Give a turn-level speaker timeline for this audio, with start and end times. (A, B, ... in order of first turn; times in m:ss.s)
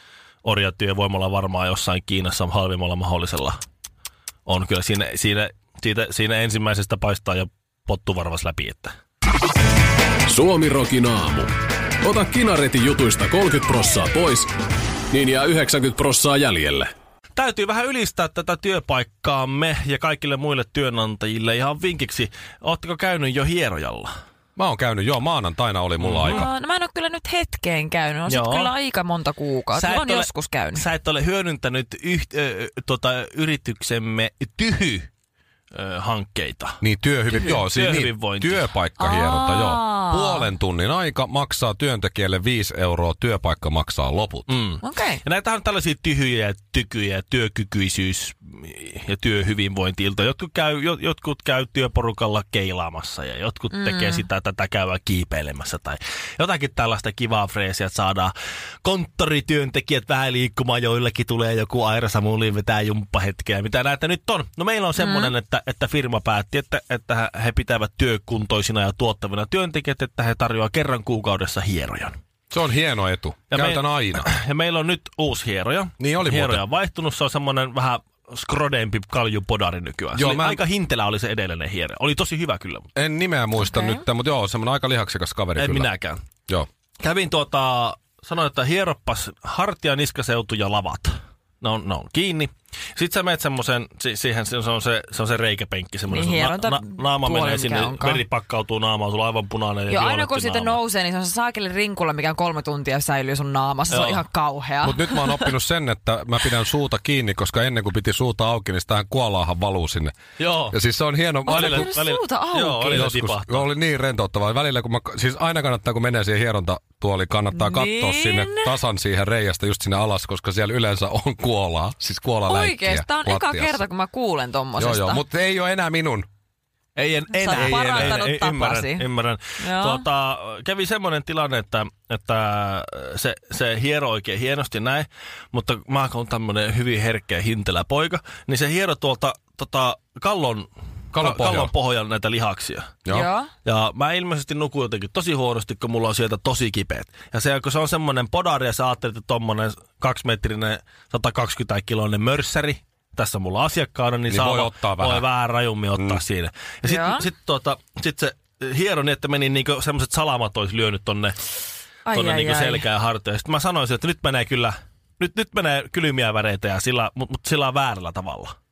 0:00.4-0:03.6 A
0:04.5-0:08.9 A
0:10.3-0:11.5 B
0:12.0-0:14.5 B
0:15.1-0:16.9 B
0:17.4-0:24.1 A
0:24.6-0:26.5 C
0:26.0-0:26.5 A
0:26.2-0:30.8 D
0:28.3-0:28.7 A
0:29.7-0:35.1 A
0:35.7-0:38.6 A
0:36.8-0:44.5 C
0:39.0-0:40.5 D
0:44.5-1:12.2 A
0:44.8-0:45.2 D
0:53.7-0:54.2 D
1:05.0-1:05.3 D
1:12.5-1:14.3 C
1:13.5-1:22.9 A
1:16.0-1:16.6 C
1:20.1-1:20.6 C
1:23.0-1:25.9 C
1:23.7-1:24.0 D
1:25.6-1:26.2 A
1:27.0-1:40.8 A
1:36.1-1:38.2 D
1:39.9-1:45.6 D
1:43.9-1:44.2 A
1:44.8-1:50.2 C
1:50.4-1:50.8 A
1:50.7-1:51.9 C
1:51.5-1:53.1 D
1:51.5-1:53.7 A
1:52.9-2:03.8 C
1:57.5-1:58.7 D
2:02.5-2:05.2 D
2:04.8-2:06.3 C
2:07.0-2:23.0 A
2:07.3-2:09.0 D
2:07.5-2:08.2 C
2:09.6-2:10.0 D
2:21.1-2:21.7 C
2:23.0-2:23.3 C
2:23.1-2:23.5 D
2:23.6-2:41.4 A
2:34.3-2:35.3 C
2:35.9-2:36.2 C
2:36.8-2:37.3 D
2:42.1-2:42.8 D
2:42.1-2:48.6 A